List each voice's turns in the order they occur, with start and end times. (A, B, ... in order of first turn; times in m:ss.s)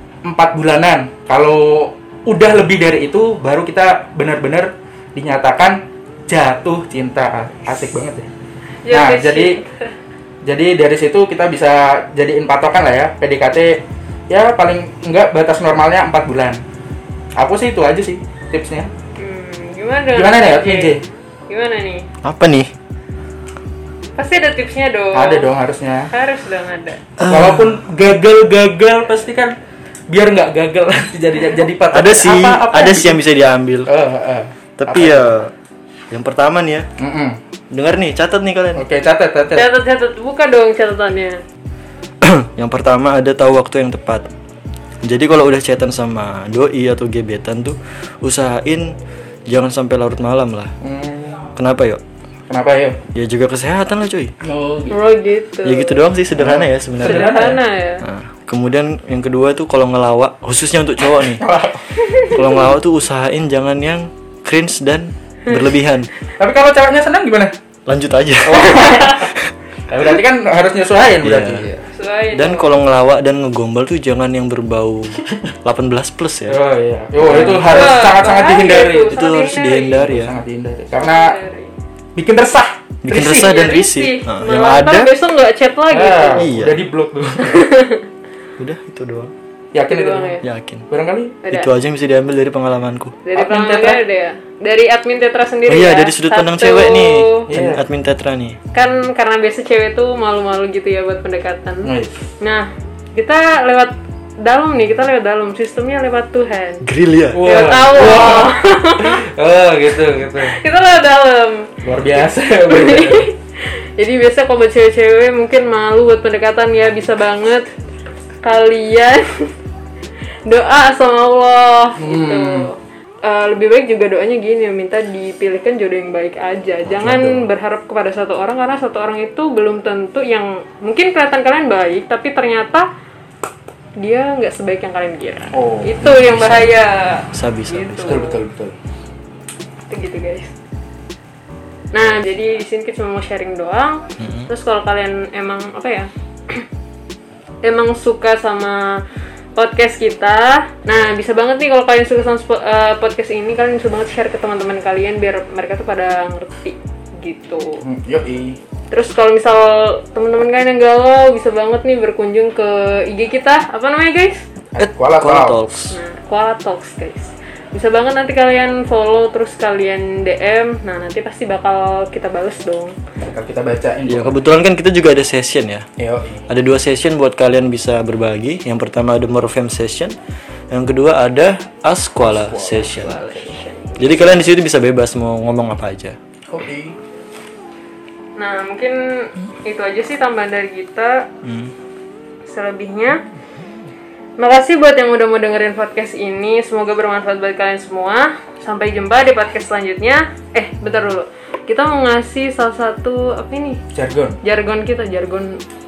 0:00.2-0:08.3 A
0:08.8-0:09.9 B
0:08.9-0:09.5 A
0:10.4-0:16.6 A
0:17.4-0:18.9 A
0:19.2-0:21.0 B
0:20.1-0:21.1 A
0:21.5-0:22.1 B
0:22.2-0:22.7 C
0:24.2-0:25.6 B
0:25.1-0:26.1 A
0:26.1-0:27.0 B
0:27.2-0:29.6 A
0:30.1-0:33.2 A
0:31.9-0:33.9 C
0:33.8-0:35.4 A
0:34.8-0:35.5 C
0:36.1-0:36.9 C
0:37.0-0:37.4 A
0:37.7-0:38.8 C
0:38.8-0:39.7 A
0:39.5-0:41.4 B
0:42.2-0:44.3 C
0:45.0-0:49.0 C
0:49.5-0:50.7 C
0:50.8-0:51.4 A
0:51.5-0:52.0 C
0:52.5-0:53.0 A
0:53.1-0:54.3 C
0:54.4-0:55.0 A
0:54.9-0:56.0 B
0:55.6-1:01.4 C
0:56.4-0:57.6 A
0:57.0-0:58.0 B
1:01.4-1:02.2 A
1:02.2-1:06.1 C
1:06.4-1:07.5 A
1:07.9-1:09.5 C
1:08.4-1:09.3 A
1:09.9-1:11.8 A
1:11.2-1:11.7 C
1:11.8-1:12.8 B
1:12.3-1:16.6 C
1:16.5-1:19.2 A
1:17.2-1:18.0 C
1:17.4-1:20.1 B
1:19.1-1:20.4 C
1:20.0-1:21.3 A
1:21.0-1:21.7 B
1:22.2-1:23.6 A
1:23.0-1:25.1 C
1:23.5-1:26.5 B
1:25.9-1:27.7 A
1:26.4-1:26.8 C
1:27.5-1:28.0 B
1:28.6-1:29.3 C
1:29.7-1:30.4 A
1:29.9-1:30.4 B
1:30.4-1:30.8 C
1:30.9-1:31.4 A
1:31.4-1:31.7 B
1:31.5-1:33.2 C
1:33.2-1:37.5 B
1:33.3-1:34.0 A
1:35.7-1:38.6 C
1:37.5-1:37.8 A
1:38.7-1:46.8 B
1:41.8-1:42.2 A
1:46.8-1:47.4 C
1:47.3-1:50.6 A
1:47.4-1:49.2 B
1:50.4-1:53.4 B
1:51.8-1:53.3 A
1:54.0-1:57.7 B
1:58.4-1:59.5 B
2:00.4-2:12.9 B
2:02.0-2:02.7 A
2:06.9-2:07.5 C
2:14.0-2:18.4 B
2:15.5-2:16.1 A
2:16.0-2:16.7 C
2:17.3-2:18.2 C
2:18.0-2:18.7 A
2:19.9-2:20.5 B
2:21.9-2:26.6 B
2:24.2-2:24.5 C
2:27.6-2:29.0 B
2:29.6-2:37.8 B
2:37.8-2:38.6 A
2:38.9-2:44.4 B
2:44.7-2:45.6 A
2:44.8-2:46.0 C
2:45.9-2:53.0 B
2:53.2-2:54.4 A
2:54.1-2:55.8 C
2:56.0-2:56.4 A
2:56.5-3:00.2 C
3:00.7-3:03.1 C
3:02.2-3:03.5 A
3:03.0-3:04.5 B
3:04.0-3:06.2 C
3:06.5-3:07.0 A
3:08.4-3:11.2 B
3:11.4-3:11.7 C
3:12.5-3:13.2 B
3:14.4-3:23.8 B
3:23.9-3:24.4 A
3:24.4-3:25.6 B